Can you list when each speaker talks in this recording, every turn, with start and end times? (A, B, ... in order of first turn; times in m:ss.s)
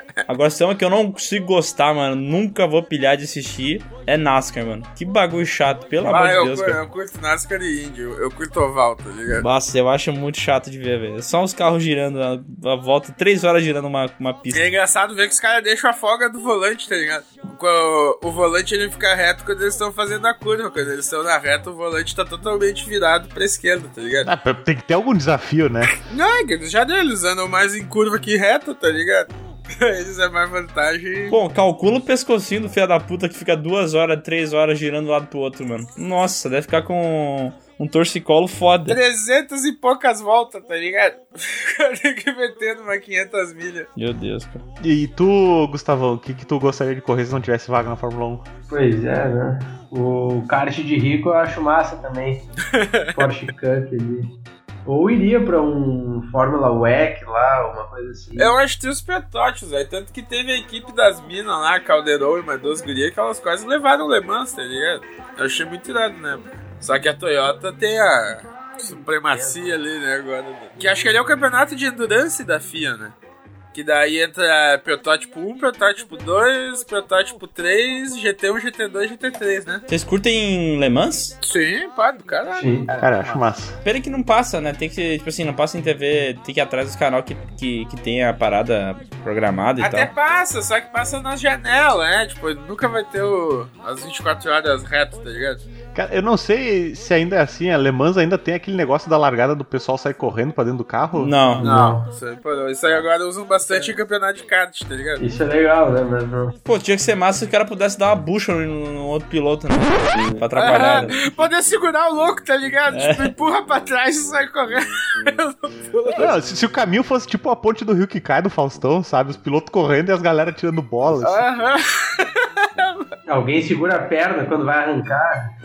0:00.3-0:06.8 A
0:06.0-0:09.4 B
0:09.3-0:14.6 A
0:14.5-0:24.3 B
0:24.2-0:25.9 C
0:26.0-0:31.4 B
0:31.3-0:39.0 A
0:38.9-0:43.9 B
0:44.0-0:44.6 A
0:44.8-0:48.4 C
0:48.7-0:52.4 D
0:52.7-0:53.3 B
0:53.1-0:54.3 D
0:54.8-0:58.5 D
0:58.4-1:13.1 B
1:09.3-1:09.6 D
1:13.7-1:19.8 B
1:19.9-1:21.4 A
1:21.4-1:23.4 B
1:22.5-1:22.9 D
1:23.0-1:23.7 C
1:23.8-1:30.1 A
1:29.8-1:35.6 B
1:35.9-1:41.5 C
1:41.1-1:41.7 A
1:41.6-1:42.0 D
1:41.6-1:45.2 B
1:45.2-1:46.5 D
1:46.6-1:51.2 A
1:50.6-1:56.4 B
1:52.9-1:53.3 A
1:56.1-2:01.4 C
2:01.2-2:03.0 B
2:03.3-2:05.5 D